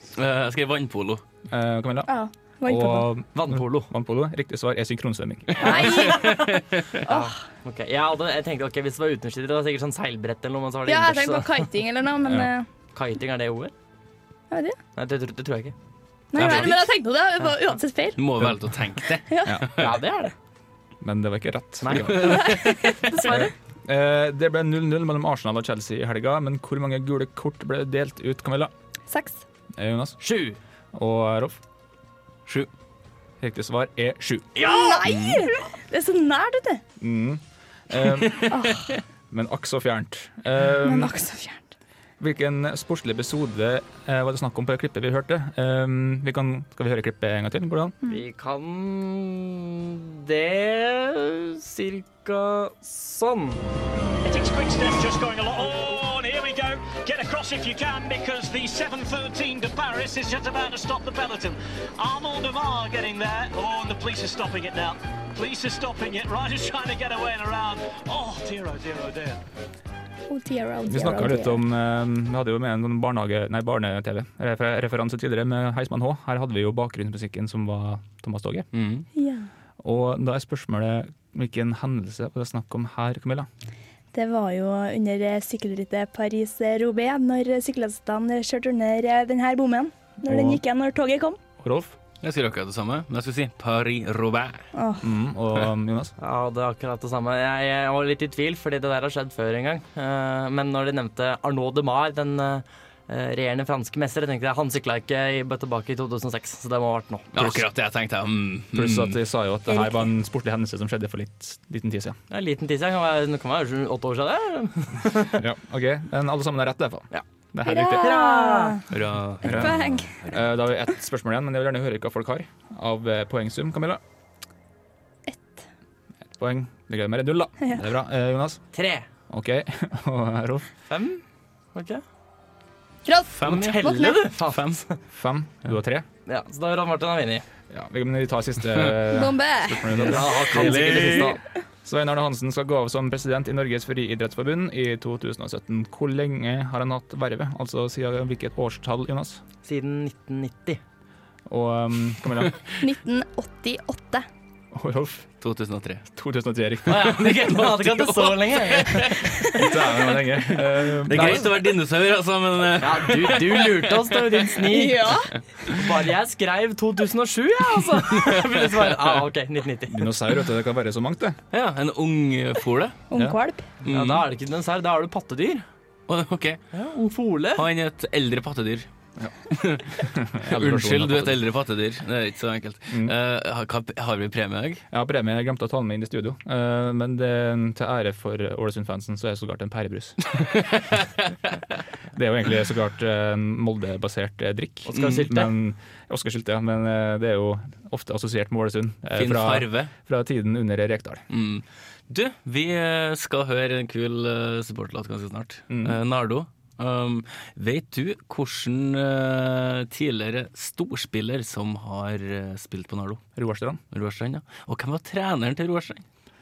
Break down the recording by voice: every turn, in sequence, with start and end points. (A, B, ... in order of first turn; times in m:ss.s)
0:00.2-0:01.2 A
0:01.5-0:02.1 B
0:02.1-0:03.1 C
0:02.6-0:06.1 B
0:03.3-0:03.9 D
0:05.6-0:06.5 C
0:05.6-0:11.7 D
0:06.1-0:06.8 A
0:07.0-0:07.3 C
0:10.9-0:12.7 C
0:12.2-0:12.5 B
0:12.9-0:13.7 D
0:14.5-0:14.8 C
0:15.0-0:15.8 D
0:16.3-0:18.2 C
0:16.4-0:16.8 A
0:16.4-0:16.7 B
0:18.2-0:19.9 A
0:18.4-0:18.7 B
0:19.3-0:19.6 C
0:19.4-0:19.8 B
0:19.8-0:20.3 D
0:21.0-0:22.5 B
0:21.8-0:22.3 D
0:22.0-0:23.1 A
0:22.2-0:23.5 C
0:23.2-0:28.7 B
0:29.1-0:29.4 C
0:29.8-0:30.2 B
0:30.2-0:30.6 D
0:30.9-0:31.6 B
0:33.4-0:34.6 B
0:34.6-0:35.0 D
0:34.6-0:36.8 C
0:35.0-0:35.5 A
0:37.0-0:38.5 B
0:38.5-0:39.0 C
0:39.3-0:41.2 B
0:40.8-0:41.6 C
0:42.2-0:48.0 B
0:48.1-0:53.6 D
0:54.2-1:09.4 E
1:10.3-1:11.6 C
1:10.9-1:18.7 B
1:18.7-1:19.1 A
1:19.2-1:19.5 C
1:19.8-1:23.5 B
1:24.1-1:31.4 C
1:30.2-1:30.6 B
1:31.6-1:32.0 B
1:32.2-1:34.6 A
1:34.8-1:35.1 C
1:35.0-1:36.1 B
1:36.2-1:47.3 D
1:47.3-1:49.2 A
1:47.4-1:47.7 B
1:48.7-1:52.2 B
1:52.3-1:55.4 D
1:55.3-1:58.2 B
1:57.6-1:58.8 C
1:58.0-1:58.8 D
1:58.9-2:00.2 A
1:59.4-2:04.0 B
1:59.4-2:00.2 C
2:05.3-2:05.6 C
2:06.4-2:08.6 B
2:08.7-2:09.1 D
2:09.3-2:10.7 B
2:10.9-2:11.2 D
2:11.7-2:12.0 D
2:13.1-2:14.2 C
2:13.3-2:14.8 A
2:13.4-2:15.0 D
2:15.1-2:16.1 B
2:16.3-2:17.4 D
2:17.7-2:29.4 B
2:19.1-2:20.1 C
2:20.0-2:21.4 D
2:20.4-2:21.4 A
2:29.6-2:30.8 D
2:31.5-2:32.6 B
2:32.8-2:34.3 C
2:34.7-2:35.3 B
2:35.4-2:36.1 A
2:36.2-2:37.8 B
2:36.9-2:39.4 D
2:37.6-2:39.0 A
2:39.5-2:41.5 B
2:40.5-2:44.5 A
2:41.1-2:41.5 D
2:42.8-2:45.1 D
2:44.7-2:45.4 C
2:45.6-2:50.1 D
2:49.9-2:51.4 B
2:51.5-2:53.0 A
2:53.1-2:53.6 C
2:53.1-2:53.4 B
2:53.8-2:55.6 D
2:53.9-2:54.3 A
2:56.1-2:56.6 A
2:56.7-2:57.6 D
2:57.6-2:58.9 A
2:59.5-3:04.8 A
3:00.0-3:01.4 B
3:02.9-3:03.2 B
3:04.9-3:10.2 B
3:10.4-3:11.1 A
3:12.1-3:21.2 B
3:14.9-3:15.5 D
3:19.2-3:19.9 A
3:21.3-3:33.2 A
3:25.7-3:26.0 B
3:33.4-3:33.8 B
3:33.9-3:36.0 A